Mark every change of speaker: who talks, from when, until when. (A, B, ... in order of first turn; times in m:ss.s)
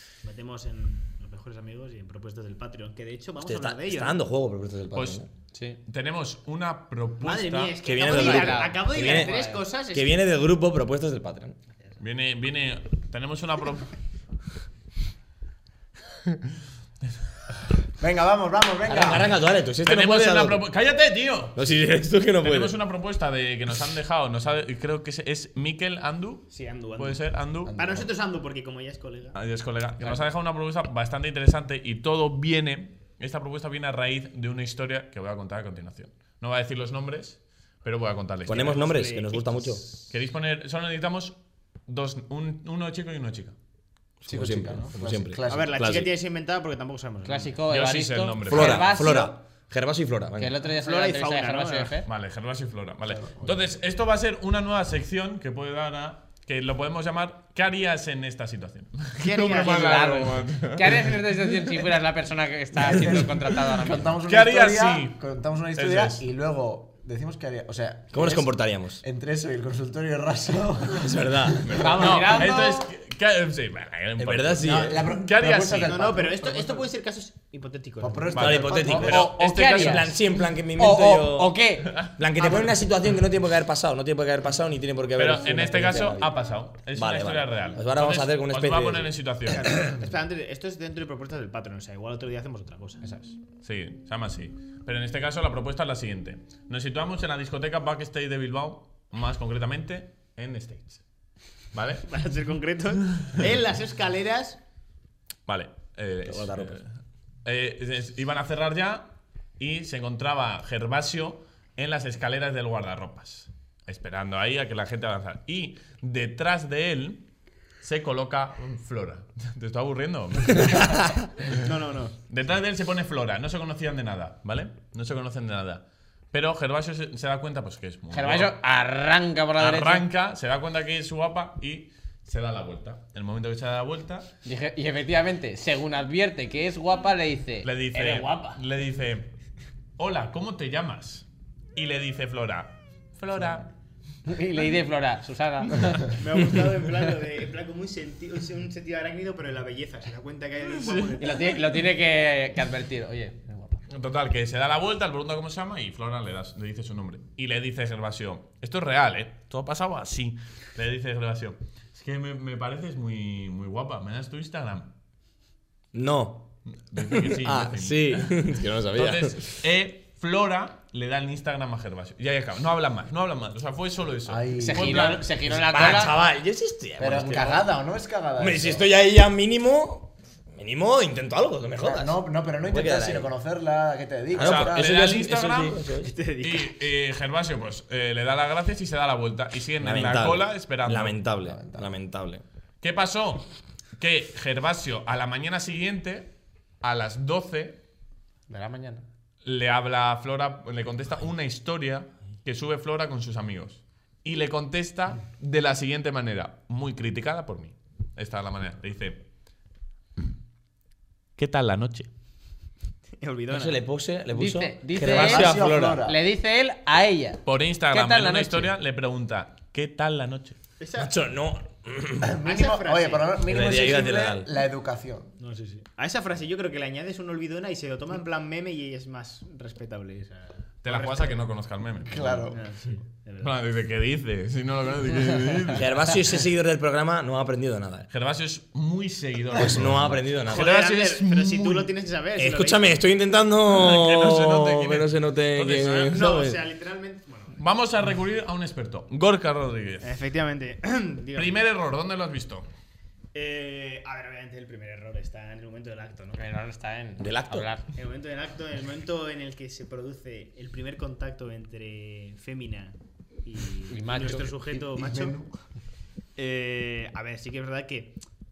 0:00.2-0:04.2 A
0:03.4-0:05.3 B
0:04.9-0:05.2 C
0:05.5-0:05.8 D
0:05.8-0:07.8 C
0:07.2-0:10.2 A
0:07.8-0:11.6 B
0:08.0-0:09.6 D
0:12.0-0:13.9 C
0:18.0-0:19.4 E
0:18.8-0:20.6 B
0:19.8-0:21.6 C
0:21.6-0:22.8 B
0:22.4-0:27.7 C
0:26.5-0:29.4 A
0:27.6-0:28.1 E
0:29.3-0:38.8 C
0:38.4-0:39.8 B
0:38.5-0:39.9 A
0:40.1-0:43.5 C
0:44.2-0:46.1 B
0:44.3-0:45.9 E
0:45.4-0:47.6 A
0:47.2-0:49.4 D
0:47.7-0:49.0 C
0:48.4-0:50.6 B
0:50.4-0:52.1 D
0:50.6-0:52.0 A
0:52.0-1:01.3 C
0:53.1-0:53.8 E
0:59.2-1:00.1 A
0:59.4-1:04.1 D
1:02.9-1:12.2 E
1:03.0-1:03.3 C
1:04.3-1:05.2 C
1:05.7-1:06.2 C
1:08.1-1:09.0 B
1:11.0-1:11.9 B
1:11.6-1:16.0 C
1:11.7-1:12.8 D
1:14.2-1:15.1 B
1:14.6-1:16.8 E
1:15.8-1:18.4 A
1:18.0-1:19.3 E
1:18.3-1:20.2 C
1:18.3-1:26.4 B
1:19.0-1:22.1 D
1:25.2-1:29.8 C
1:26.9-1:29.1 B
1:29.5-1:33.3 A
1:33.6-1:41.0 C
1:41.7-1:42.1 C
1:42.1-1:44.6 A
1:45.4-1:46.9 C
1:46.2-1:46.8 B
1:47.4-1:57.2 C
1:57.8-2:01.6 C
2:01.6-2:02.2 A
2:02.3-2:08.5 C
2:08.1-2:10.0 D
2:09.6-2:14.3 C
2:14.4-2:18.5 D
2:17.6-2:19.3 C
2:20.0-2:23.6 C
2:24.2-2:26.2 D
2:26.0-2:31.6 A
2:31.2-2:33.8 D
2:33.9-2:44.9 C
2:45.9-2:49.4 B
2:46.9-2:55.3 C
2:54.2-2:55.2 E
2:54.6-2:56.1 D
2:55.5-2:57.7 B
2:57.0-2:58.9 E
2:58.4-3:03.3 B
3:01.8-3:04.9 E
3:04.3-3:06.1 B
3:04.4-3:05.8 C
3:06.0-3:06.7 A
3:06.4-3:11.2 C
3:09.8-3:12.4 B
3:11.4-3:11.9 E
3:12.8-3:13.4 C
3:14.0-3:17.8 C
3:18.5-3:19.0 D
3:19.4-3:29.2 C
3:31.4-3:32.1 C
3:33.2-3:33.8 A
3:33.5-3:36.0 B
3:34.3-3:38.7 D
3:35.0-3:36.2 E
3:37.4-3:40.6 C
3:40.8-3:41.1 A
3:41.0-3:42.4 B
3:42.2-3:45.3 E
3:42.4-3:43.4 A
3:43.4-3:44.5 B
3:45.4-3:51.5 A
3:50.8-3:52.5 C
3:52.0-3:52.6 E
3:52.5-3:53.5 A
3:53.4-3:55.9 C
3:55.7-3:58.1 B
3:58.1-4:01.9 C
3:59.5-4:00.7 B
4:00.4-4:03.0 A
4:02.4-4:06.6 B
4:03.7-4:06.1 C
4:06.1-4:07.6 A
4:07.6-4:10.2 C
4:10.0-4:11.6 A
4:11.3-4:12.7 C
4:13.3-4:16.5 A
4:16.4-4:17.8 D
4:17.2-4:17.7 B
4:17.9-4:25.4 A
4:23.9-4:24.5 D
4:24.8-4:25.5 E
4:26.4-4:28.2 A